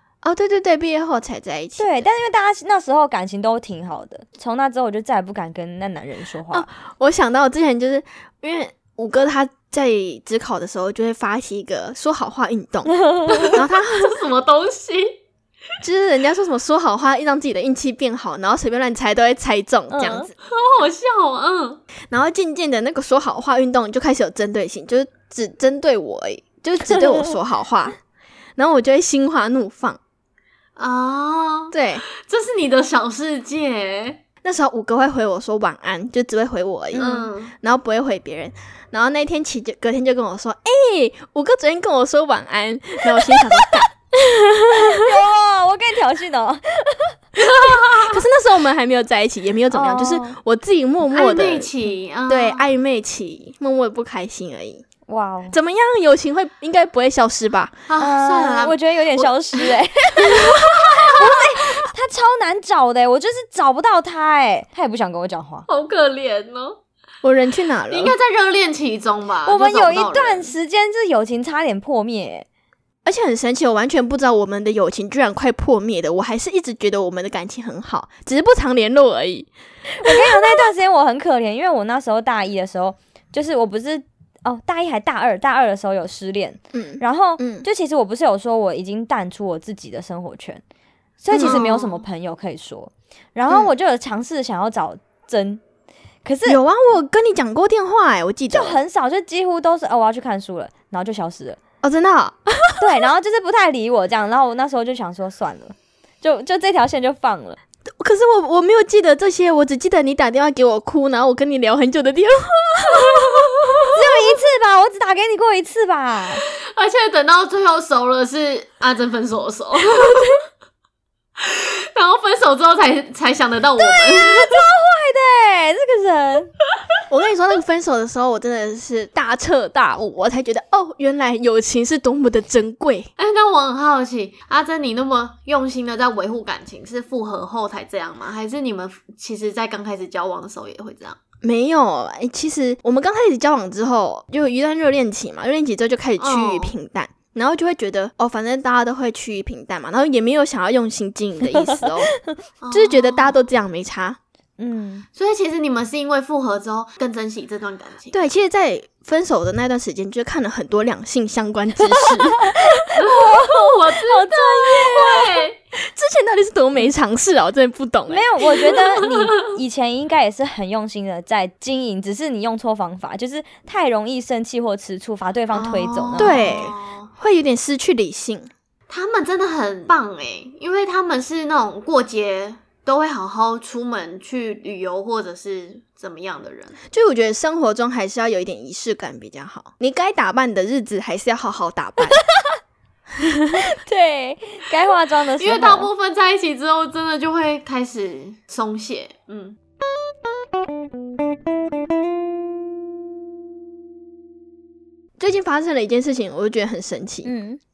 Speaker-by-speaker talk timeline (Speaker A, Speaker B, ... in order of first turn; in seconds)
Speaker A: 0.2-1.9, 6.5-14.2, 15.8-20.3, 22.1-28.0, 28.6-30.0, 31.7-32.0, 34.4-45.1, 47.5-51.7, 52.3-54.8, 55.5-57.8, 67.2-68.2, 73.0-79.5, 86.7-87.7, 91.3-91.9, 96.5-98.8, 101.8-102.9, 108.0-113.9, 127.1-133.1, 141.4-152.1, 152.7-154.2, 158.1-162.9, 164.8-168.3, 176.2-178.5, 186.9-192.2, 193.2-193.6, 205.2-207.3
Speaker B: 1.8-6.7, 12.9-13.6, 19.9-20.3, 26.9-27.3, 44.7-47.2, 49.7-50.4, 55.1-55.6, 58.0-60.5, 61.1-65.7, 69.5-72.5, 80.0-90.6, 91.2-95.6, 96.2-96.6, 98.5-101.6, 102.8-107.6, 113.9-116.4, 123.8-126.5, 154.6-155.1, 161.8-165.2, 168.1-176.4, 193.6-195.9, 207.2-207.6
Speaker C: 13.3-15.2, 20.4-21.8, 30.8-34.2, 37.0-37.5, 47.5-48.2, 51.1-52.7, 57.9-59.7, 61.0-61.3, 65.7-66.8, 67.9-70.5, 91.3-91.8, 116.7-120.4, 121.4-124.7, 133.2-141.2, 146.2-146.8, 152.6-153.3, 155.2-158.2, 163.0-165.6, 175.5-177.1, 178.9-186.8, 195.4-199.6